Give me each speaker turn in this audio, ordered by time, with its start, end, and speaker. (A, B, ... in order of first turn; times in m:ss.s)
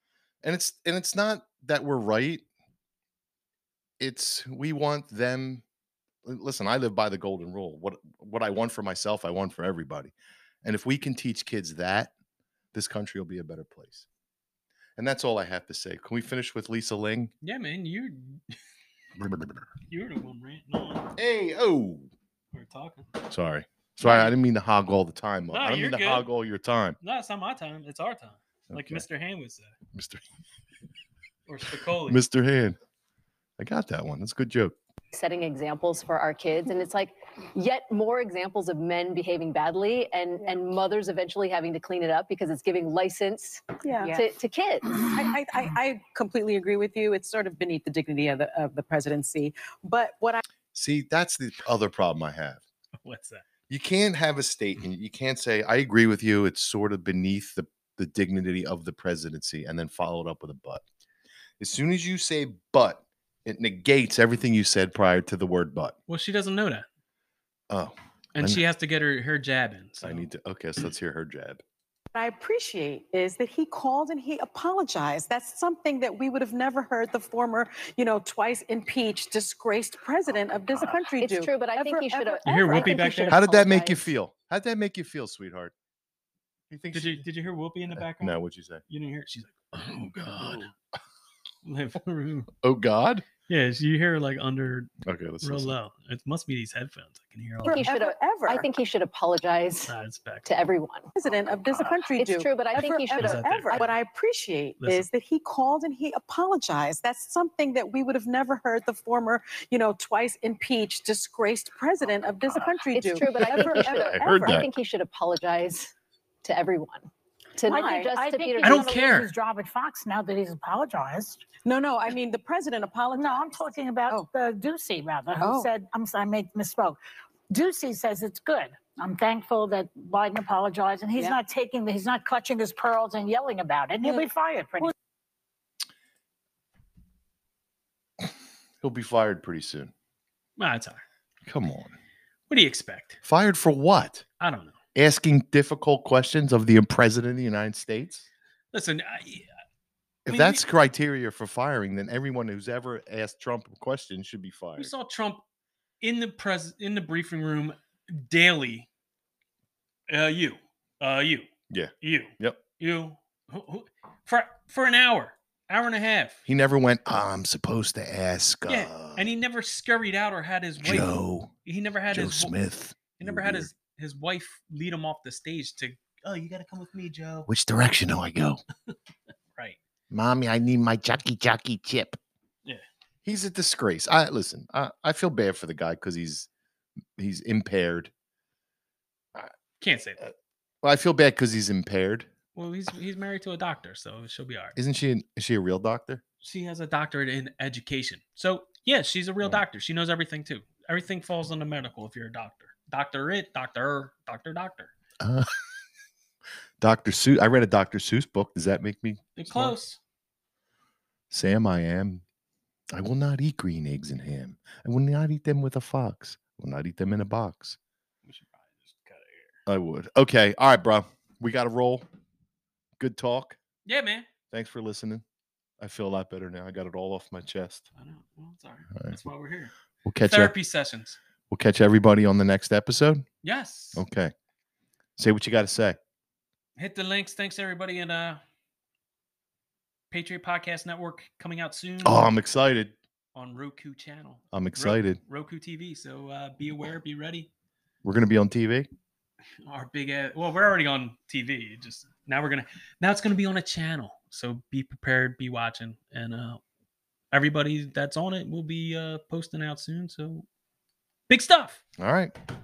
0:00.4-0:02.4 A
0:04.0-0:05.6 A
0:06.2-0:12.1 A
0:12.7-0:14.1 A
0:15.0-0:17.3 A
0:17.4-0:18.6 B
0:19.2-0:19.5 A
0:19.9-0:21.1 B
0:21.2-0:22.1 A
0:22.5-0:23.1 B
0:23.2-0:27.0 A
0:24.0-0:24.4 B
0:25.5-0:26.3 B
0:27.0-0:29.8 B
0:28.7-0:29.0 A
0:29.9-0:30.2 A
0:31.5-0:32.2 B
0:32.1-0:32.8 A
0:33.6-0:34.8 A
0:35.1-0:45.0 C
0:43.8-0:44.2 D
0:45.1-0:50.4 D
0:50.7-0:52.6 A
0:53.0-0:53.4 B
0:53.7-1:00.8 A
1:01.6-1:06.0 A
1:06.1-1:06.9 B
1:07.7-1:08.6 A
1:08.4-1:10.3 B
1:10.0-1:11.6 A
1:12.1-1:23.0 D
1:21.2-1:24.1 C
1:22.5-1:23.4 B
1:23.3-1:25.7 A
1:26.7-1:27.3 A
1:26.9-1:30.7 B
1:27.9-1:28.8 A
1:31.6-1:32.5 B
1:32.6-1:33.3 A
1:33.5-1:34.9 B
1:35.1-1:35.8 A
1:35.4-1:37.9 B
1:37.6-1:38.7 D
1:37.7-1:39.9 C
1:39.9-1:40.6 B
1:40.4-1:41.1 C
1:41.2-1:54.6 D
1:42.1-1:43.9 C
1:43.2-1:43.9 B
1:44.8-1:45.1 B
1:52.9-1:55.9 C
1:53.4-1:54.7 A
1:56.4-1:58.9 C
1:57.7-1:58.1 D
1:57.7-2:01.4 E
1:58.6-1:59.3 B
2:01.6-2:04.3 D
2:03.2-2:07.0 E
2:05.4-2:05.7 D
2:07.5-2:14.9 E
2:18.8-2:19.9 A
2:20.6-2:21.0 B
2:21.5-2:22.0 A
2:22.5-2:23.2 B
2:23.2-2:24.2 A
2:24.4-2:24.8 B
2:25.0-2:28.3 A
2:28.7-2:29.5 B
2:30.2-2:34.9 A
2:30.3-2:30.6 B
2:34.8-2:35.4 B
2:36.0-2:38.9 B
2:40.1-2:41.5 B
2:41.7-2:42.6 A
2:42.0-2:46.4 B
2:46.5-2:49.3 A
2:48.7-2:52.6 B
2:50.8-2:51.5 A
2:52.1-2:53.7 A
2:53.2-2:57.5 B
2:57.5-2:58.6 A
3:00.1-3:02.2 A
3:03.2-3:06.5 A
3:07.2-3:08.1 A
3:09.8-3:10.2 B
3:10.8-3:12.3 A
3:12.5-3:14.8 B
3:14.8-3:16.2 A
3:16.4-3:24.9 B
3:25.2-3:25.5 A
3:26.8-3:29.8 A
3:29.4-3:30.0 B
3:31.3-3:32.2 A
3:32.9-3:37.8 A
3:38.2-3:39.6 B
3:39.7-3:42.1 A
3:43.0-3:43.6 A
3:43.9-3:44.3 B
3:44.5-3:45.2 A
3:45.8-3:47.9 A
3:48.0-3:49.7 B
3:50.0-3:50.5 A
3:50.2-3:51.2 B
3:51.5-3:53.3 A
3:53.4-3:54.0 B
3:54.0-3:54.3 A
3:55.2-3:56.0 A
3:56.8-3:58.4 B
4:00.1-4:02.3 B
4:02.0-4:02.9 A
4:03.4-4:07.5 B
4:04.5-4:05.2 A
4:08.0-4:08.9 A
4:09.6-4:16.6 B
4:17.3-4:20.5 B
4:21.3-4:21.8 B
4:22.0-4:22.3 A